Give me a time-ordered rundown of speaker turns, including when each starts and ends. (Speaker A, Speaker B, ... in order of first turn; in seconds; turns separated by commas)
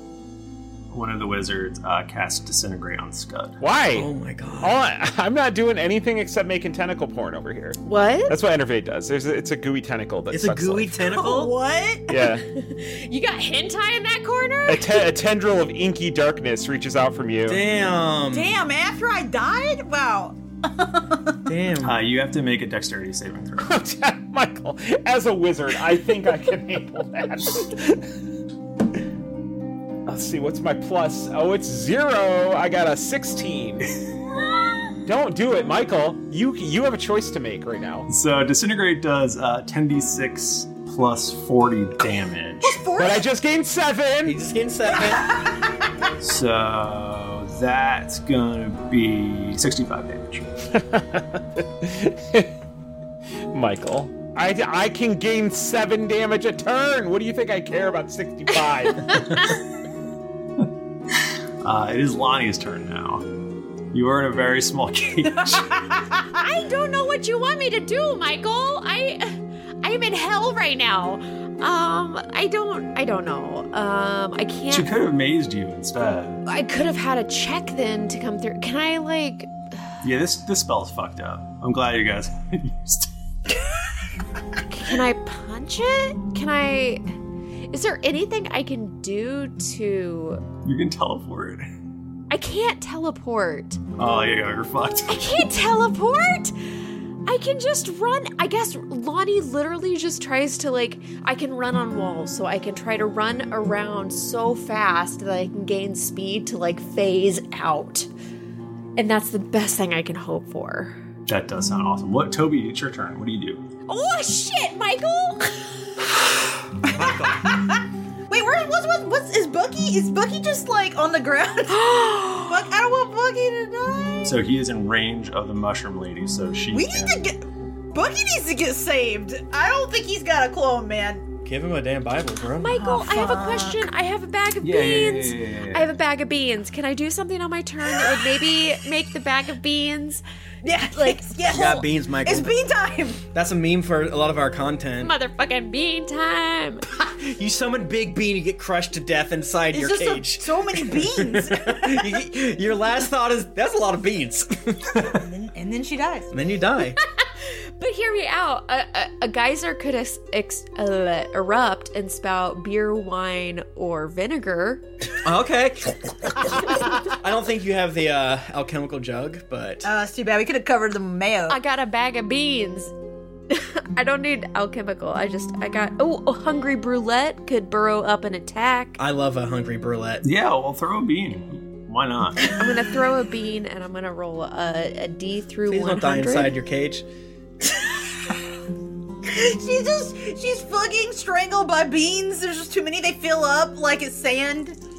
Speaker A: 0.9-3.6, Speaker B: 3.6-4.1, Speaker C: 3.9-4.7, Speaker B: 4.6-11.0, Speaker D: 7.8-8.4, Speaker C: 10.3-11.5, Speaker E: 11.0-12.1, Speaker B: 12.1-12.4, Speaker D: 12.1-15.0, Speaker B: 14.7-17.6, Speaker C: 17.5-18.5, Speaker E: 18.3-21.4, Speaker C: 21.4-22.0, Speaker A: 21.8-23.8, Speaker B: 23.6-28.1, Speaker B: 30.1-34.0, Speaker B: 35.0-38.1, Speaker A: 38.1-42.8, Speaker E: 42.6-43.3, Speaker B: 43.0-44.5, Speaker C: 44.2-45.4, Speaker E: 44.9-45.6, Speaker A: 46.2-50.5, Speaker B: 50.7-52.5, Speaker B: 53.5-59.5, Speaker D: 59.0-59.4, Speaker A: 61.6-63.3, Speaker A: 63.9-65.7, Speaker E: 65.4-66.2, Speaker D: 66.4-74.9, Speaker A: 74.7-76.4, Speaker D: 76.4-79.5, Speaker A: 80.0-83.1, Speaker D: 84.7-87.0, Speaker D: 87.7-90.4, Speaker A: 90.6-91.7, Speaker D: 92.3-93.8, Speaker A: 94.0-95.2, Speaker D: 95.1-96.5, Speaker D: 97.2-108.1, Speaker D: 109.0-111.0, Speaker A: 111.3-113.6, Speaker D: 113.9-115.9, Speaker E: 116.9-124.4, Speaker C: 116.9-117.5, Speaker D: 121.7-122.7, Speaker A: 124.2-127.3, Speaker E: 126.7-131.3, Speaker C: 131.4-132.8, Speaker D: 132.6-140.2, Speaker E: 132.7-133.8, Speaker A: 134.6-135.9, Speaker E: 140.6-143.2, Speaker C: 141.5-142.5, Speaker C: 143.3-145.1, Speaker D: 145.0-146.8, Speaker C: 147.0-155.2, Speaker E: 149.7-152.1, Speaker E: 155.0-156.3, Speaker C: 156.3-157.0, Speaker D: 157.2-164.8, Speaker C: 165.2-169.9, Speaker E: 169.8-171.6, Speaker D: 171.5-172.9, Speaker D: 173.5-179.0, Speaker C: 179.0-180.2, Speaker A: 180.2-182.5, Speaker D: 182.6-186.5, Speaker C: 185.7-187.0, Speaker E: 189.2-194.8